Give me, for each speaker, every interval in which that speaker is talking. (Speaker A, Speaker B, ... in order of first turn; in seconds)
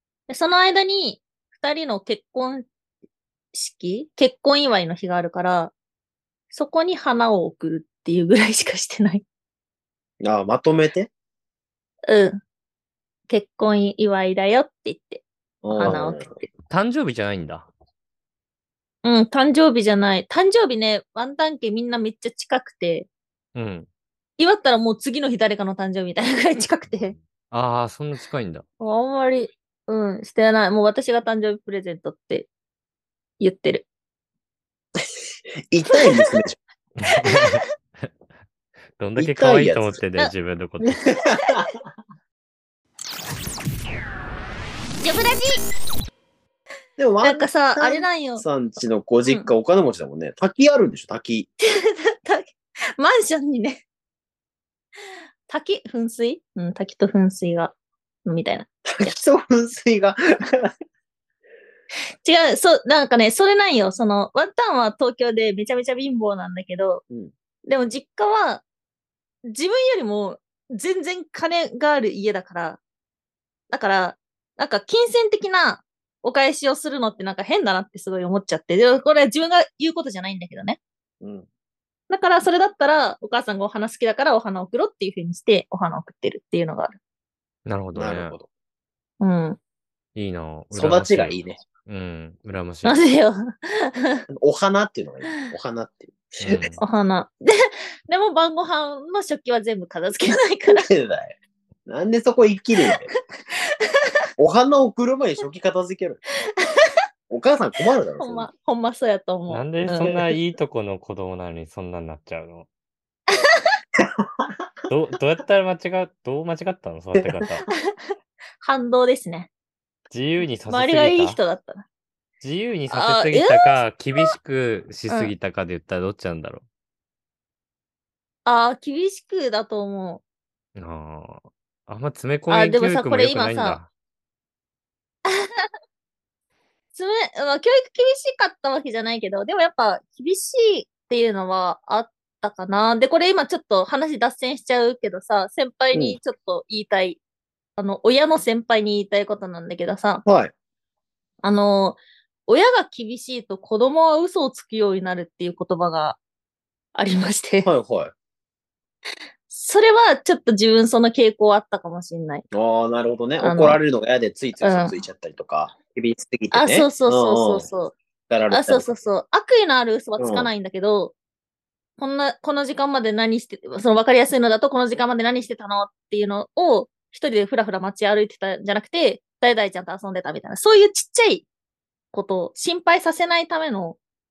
Speaker A: 0.3-2.7, 3.5-5.7, 6.5-9.2, 12.1-12.4, 13.3-16.5, 19.0-23.1, 24.4-27.2, 28.8-32.5, 33.4-33.9, 36.0-36.4, 40.9-41.7, 45.0-45.6, 47.2-48.5, 51.6-53.8, 55.5-58.7, 62.2-67.0, 67.7-68.6, 69.4-72.8, 73.7-80.8, 82.1-87.0, 89.2-89.6, 92.8-94.2, 96.8-100.9, 106.6-106.9, 108.2-110.2, 113.3-113.7, 117.7-117.9, 118.6-119.5, 120.7-121.9, 122.9-124.3, 128.4-130.2, 132.5-133.8, 135.3-135.7, 136.9-147.2, 147.8-150.2, 151.4-156.2, 156.9-157.7, 159.5-162.4, 163.4-163.8, 164.6-165.0, 166.5-168.0, 168.5-171.2, 172.0-181.5, 182.1-184.0
Speaker B: 10.2-11.1, 15.6-16.2, 35.7-36.6, 39.2-40.0, 41.1-41.7, 47.0-51.5, 58.9-60.7, 81.2-81.5, 88.0-88.5, 90.7-91.6, 94.3-96.6, 100.7-103.1, 104.4-106.2, 107.3-108.5, 110.0-110.3, 114.0-114.5, 150.2-150.5, 157.6-158.1, 162.5-167.7, 168.3-168.9, 170.2-170.5
Speaker C: 16.7-17.7, 23.6-23.9, 27.5-28.6, 37.0-38.1, 39.0-41.0, 87.7-88.3, 90.2-93.0, 96.4-96.8, 109.5-112.7, 114.9-117.7, 120.1-121.4, 122.4-126.6, 130.8-133.9